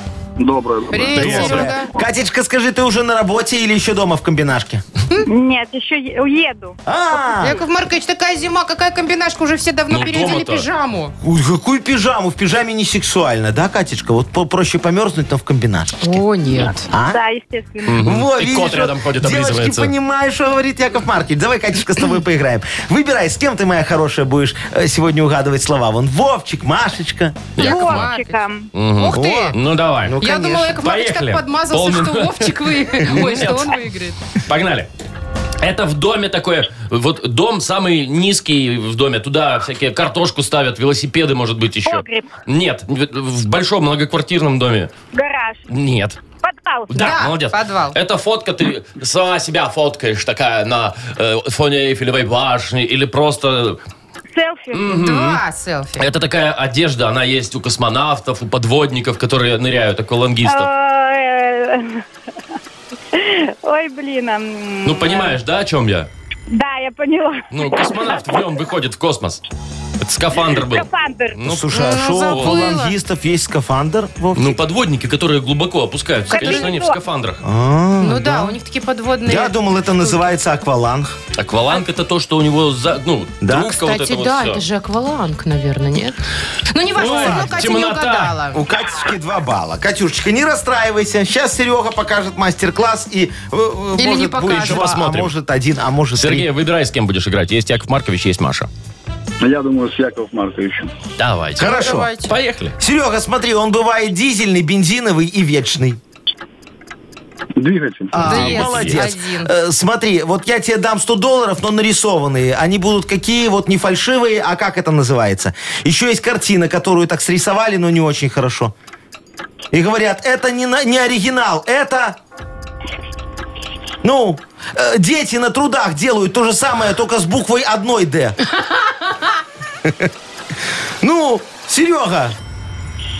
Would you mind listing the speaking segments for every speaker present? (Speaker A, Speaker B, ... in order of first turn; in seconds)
Speaker A: 0.4-1.6, 99.4-100.9, 107.6-108.1
Speaker B: 0.9-1.9, 7.4-11.1, 16.0-16.9, 27.6-28.4, 28.9-29.6, 30.2-34.2, 46.9-48.0, 54.9-56.0, 71.7-73.0, 76.3-76.7, 78.0-80.3, 83.6-86.2, 86.7-88.6, 94.0-94.9, 101.6-102.3, 108.2-109.5, 128.5-129.4
Speaker C: 1.1-1.7, 9.9-10.7, 17.9-19.9, 27.6-28.1, 28.7-33.8, 34.4-34.9, 35.6-44.9, 45.7-46.2, 46.9-53.8, 54.7-55.4, 56.0-60.7, 64.8-66.1, 67.5-69.4, 70.0-71.7, 72.3-72.6, 74.3-77.4, 81.3-84.6, 86.9-88.4, 94.4-95.3, 96.1-98.7, 101.2-102.8, 108.2-109.0
Speaker D: 1.1-4.8, 6.8-7.6, 11.2-16.2, 16.9-17.2, 18.0-27.6, 29.1-30.8, 71.5-74.6, 77.4-78.6, 79.2-81.2, 83.4-83.8, 87.0-87.6, 88.5-96.5, 101.6-102.1, 102.8-106.0, 108.1-118.7, 119.7-122.2, 124.0-128.4, 129.8-130.1, 131.0-132.3
Speaker E: 5.2-6.8, 17.1-18.0, 27.6-28.7, 41.8-42.3, 45.1-45.6, 46.4-47.2, 54.3-55.0, 60.4-62.0, 63.1-65.4, 66.5-68.2, 70.3-71.4, 76.3-77.0